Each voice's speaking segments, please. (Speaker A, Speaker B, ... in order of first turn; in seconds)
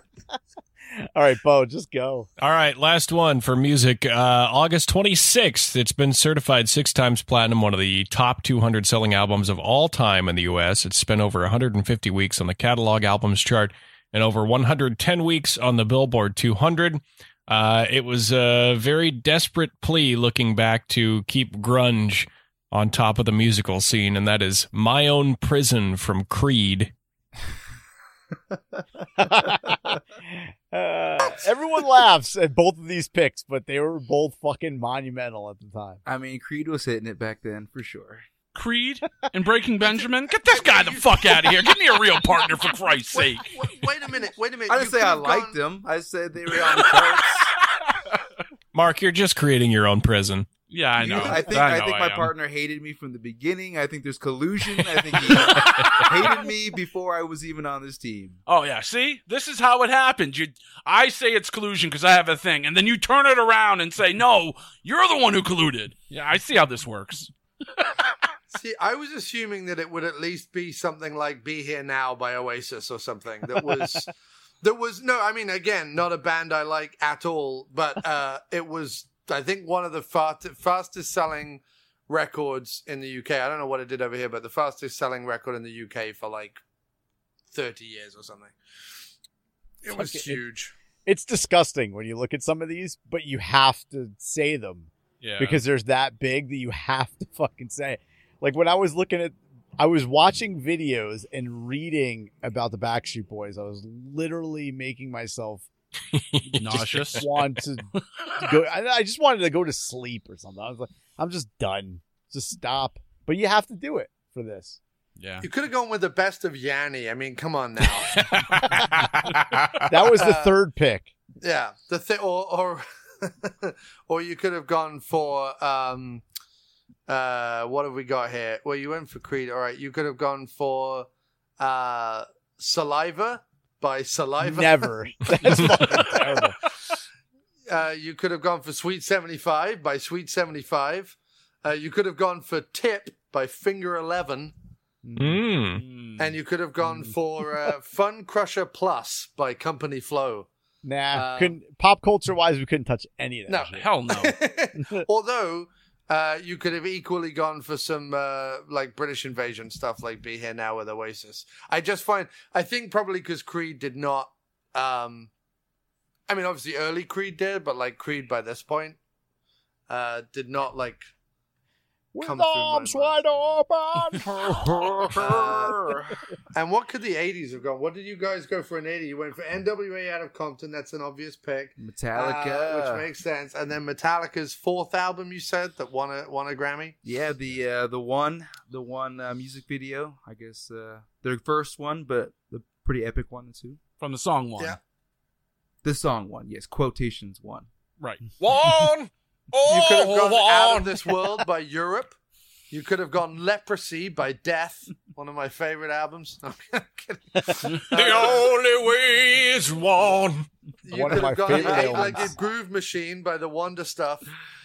Speaker A: 0.9-2.3, 29.2-36.0, 89.9-90.4, 91.0-105.7, 106.5-114.8, 119.9-121.1, 134.4-136.6, 145.0-145.4, 146.8-147.1, 150.8-153.8, 172.1-174.5, 210.9-212.3
Speaker B: 2.4-26.9, 48.7-50.5, 106.1-107.2, 145.2-145.8, 198.4-201.3, 207.8-210.5
Speaker C: 36.0-38.2, 44.7-47.5, 51.0-58.4, 174.3-176.2, 181.8-183.1, 187.0-193.8, 195.8-197.7
Speaker D: 38.5-43.5, 50.7-52.3, 55.3-56.5, 58.5-67.9, 95.2-95.6, 106.6-107.3, 115.2-115.5, 118.2-119.8, 145.8-146.3, 153.7-154.4, 194.0-194.8
Speaker E: 39.8-41.5, 43.1-45.5, 68.5-74.1, 74.6-86.6, 87.5-88.5, 89.8-90.7, 115.4-118.1, 120.2-120.5, 121.4-126.2, 127.1-131.1, 131.6-134.9, 137.7-144.5, 146.2-150.5, 151.1-151.6, 153.5-165.3, 166.3-169.0, 169.9-171.1, 172.2-173.2, 175.1-175.8, 176.5-186.9, 199.7-202.2, 202.7-208.4, 210.8-214.2